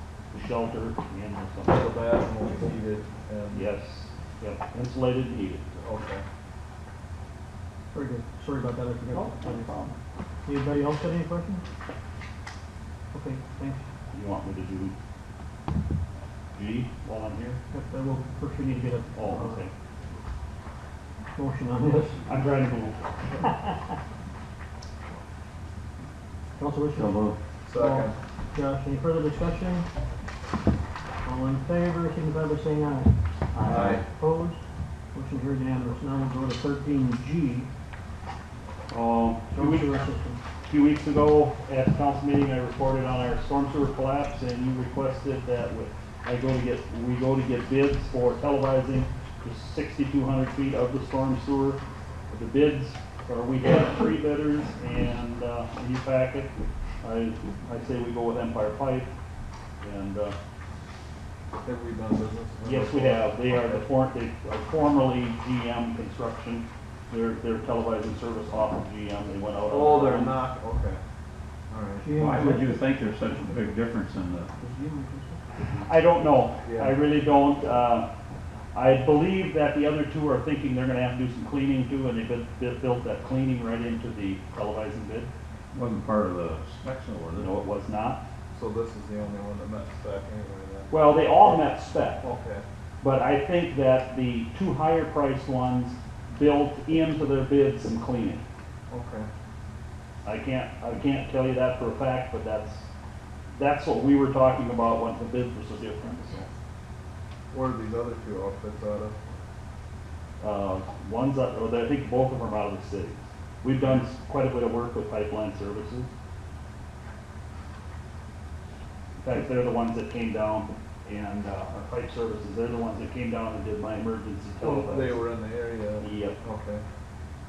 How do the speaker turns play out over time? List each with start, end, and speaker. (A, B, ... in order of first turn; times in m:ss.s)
0:00.3-0:01.9 A
0:01.6-0:03.7 B
0:03.5-0:05.7 A
0:05.8-0:06.2 B
0:07.9-0:11.6 C
0:09.2-0:09.8 A
0:13.1-0:13.8 C
0:14.1-0:14.9 A
0:16.5-0:17.6 A
0:17.7-0:19.7 C
0:19.1-0:19.7 A
0:21.3-0:22.3 C
0:22.2-0:23.0 A
0:23.4-0:23.7 C
0:26.6-0:29.9 C
0:27.0-0:27.3 D
0:27.6-0:28.2 B
0:31.2-0:34.6 C
0:33.7-0:34.0 B
0:35.1-0:37.7 C
0:38.9-0:39.9 A
0:39.5-0:40.4 C
0:40.6-0:51.8 A
0:52.3-0:56.5 A
0:57.0-0:59.1 A
0:59.8-1:00.4 A
1:01.6-1:03.8 B
1:02.6-1:10.4 A
1:09.7-1:11.0 B
1:11.7-1:12.0 B
1:12.0-1:12.9 C
1:12.2-1:14.5 D
1:14.6-1:15.4 B
1:14.9-1:15.2 C
1:15.8-1:18.1 A
1:16.6-1:17.0 B
1:18.7-1:25.3 A
1:25.7-1:27.5 D
1:27.3-1:28.2 A
1:28.5-1:31.6 B
1:30.9-1:32.2 A
1:32.2-1:32.6 B
1:33.0-1:38.4 A
1:38.9-1:39.3 B
1:40.2-1:42.8 A
1:43.5-1:46.5 A
1:47.5-1:49.2 B
1:50.4-1:56.1 A
1:59.2-2:05.2 A
2:04.6-2:06.8 B
2:06.0-2:06.4 A